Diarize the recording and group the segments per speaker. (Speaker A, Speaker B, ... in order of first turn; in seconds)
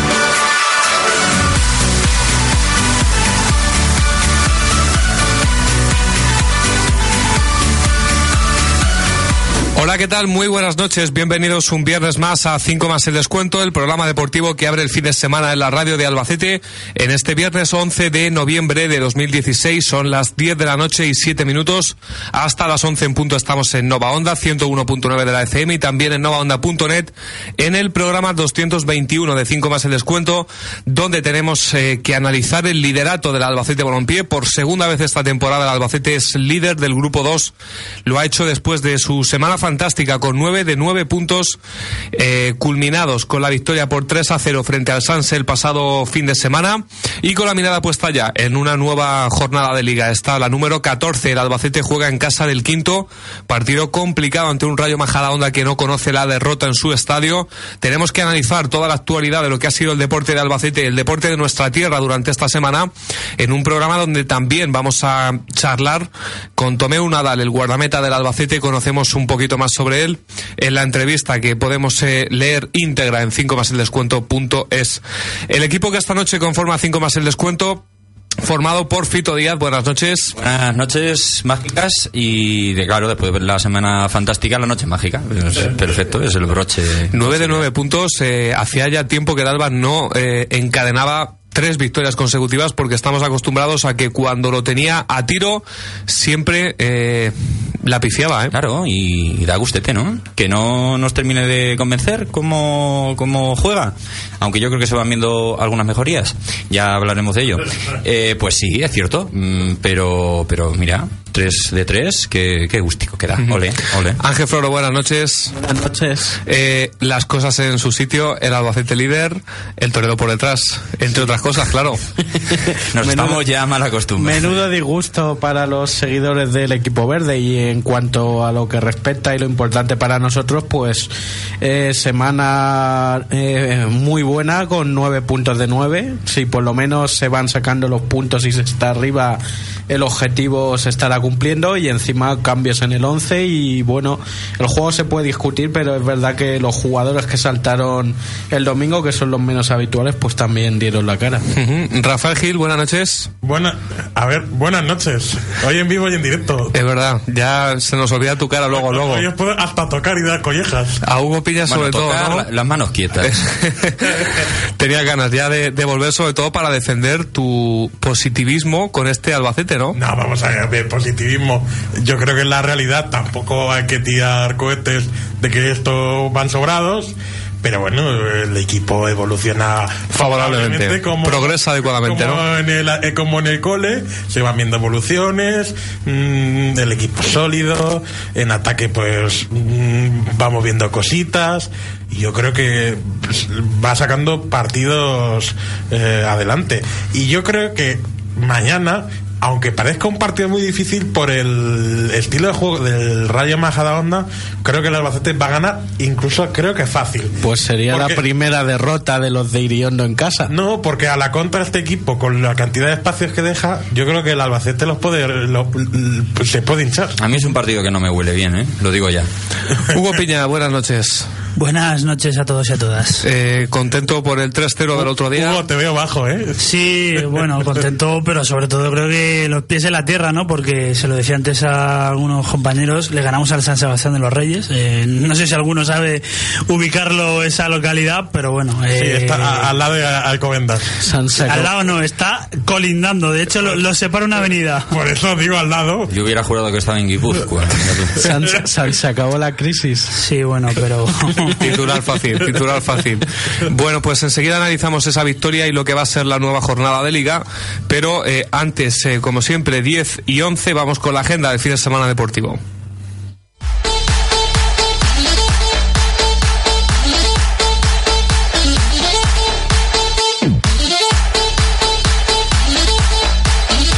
Speaker A: 9.8-37.5, 38.0-41.6, 42.1-77.8, 78.4-80.4, 87.1-98.5, 114.2-115.5, 116.5-122.0, 151.5-153.3, 156.7-159.3, 161.0-162.5, 163.2-170.0, 180.1-182.4, 219.9-221.3, 223.2-225.6, 251.6-262.6
Speaker B: 80.4-87.7, 98.5-114.2, 122.9-124.5, 161.7-163.5, 217.2-219.3, 246.1-248.2
Speaker C: 115.5-116.4, 122.5-123.4, 124.2-131.1, 131.6-151.4, 207.4-210.5, 241.0-241.7, 248.2-250.1
Speaker D: 153.4-156.7, 158.7-161.0, 169.9-207.4, 207.9-208.2, 210.5-217.2, 219.8-220.0, 225.0-226.6, 239.0-240.9, 244.9-246.1
Speaker E: 221.6-223.3, 226.6-239.7, 241.5-244.9, 250.1-251.6